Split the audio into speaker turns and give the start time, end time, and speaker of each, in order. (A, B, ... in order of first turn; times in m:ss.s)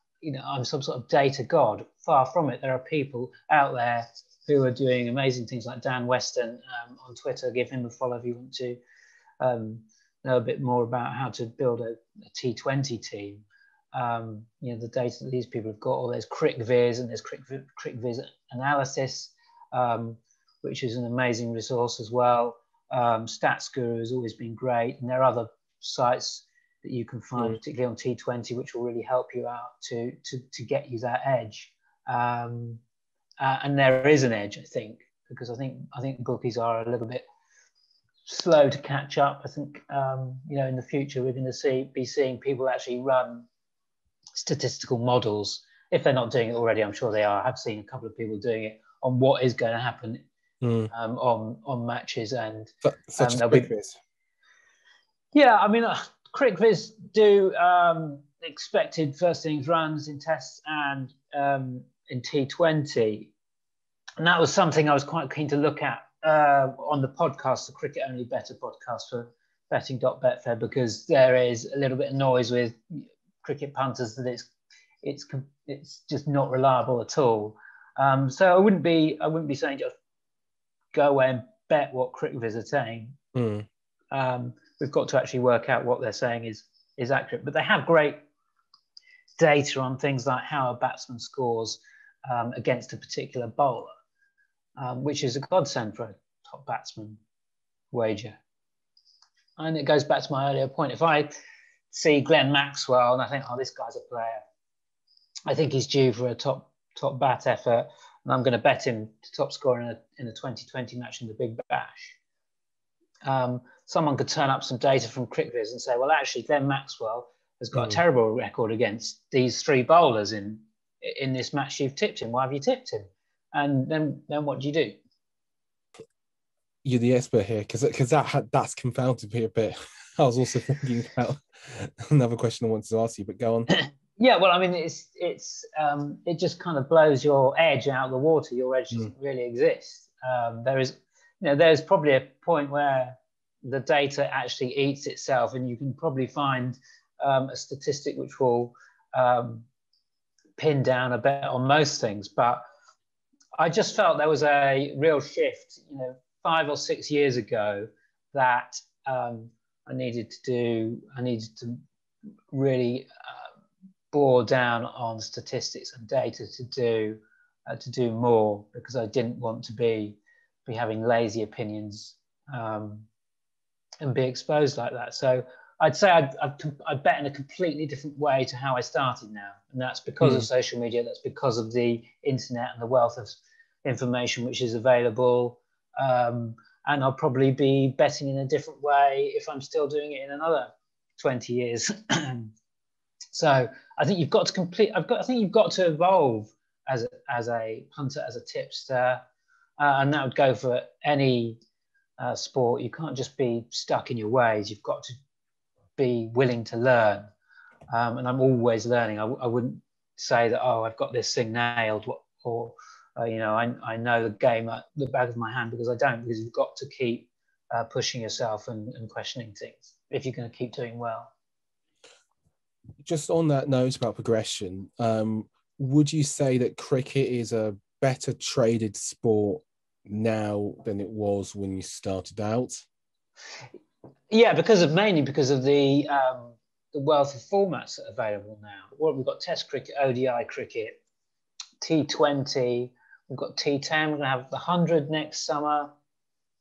0:00.2-0:08.8 A
0:09.4-0:32.8 A
0:33.4-0:37.3 A
0:38.2-0:43.5 A
0:44.4-0:50.2 A
0:50.6-0:50.9 B
0:50.9-0:53.7 A
0:52.8-0:54.0 B
0:55.3-1:03.3 A
1:04.2-1:14.5 A
1:15.0-1:19.9 A
1:20.9-1:23.2 A
1:23.4-1:23.7 B
1:24.1-1:28.2 A
1:29.4-1:33.9 A
1:34.8-1:37.2 A
1:37.9-1:38.4 A
1:39.6-1:41.4 A
1:41.9-1:44.4 A
1:45.5-1:52.2 A
1:53.2-2:05.0 A
1:57.7-1:58.0 B
2:06.8-2:13.7 B
2:14.2-2:29.7 A
2:30.6-2:32.6 A
2:33.6-2:41.8 A
2:42.5-2:43.4 A
2:44.1-2:53.1 A
2:54.0-3:12.5 A
3:00.2-3:00.5 B
3:13.3-3:19.2 A
3:19.8-3:21.6 A
3:22.2-3:25.1 A
3:26.0-3:27.3 A
3:27.9-3:41.3 A
3:43.0-3:52.8 B
3:54.3-4:01.0 A
4:01.8-4:05.9 A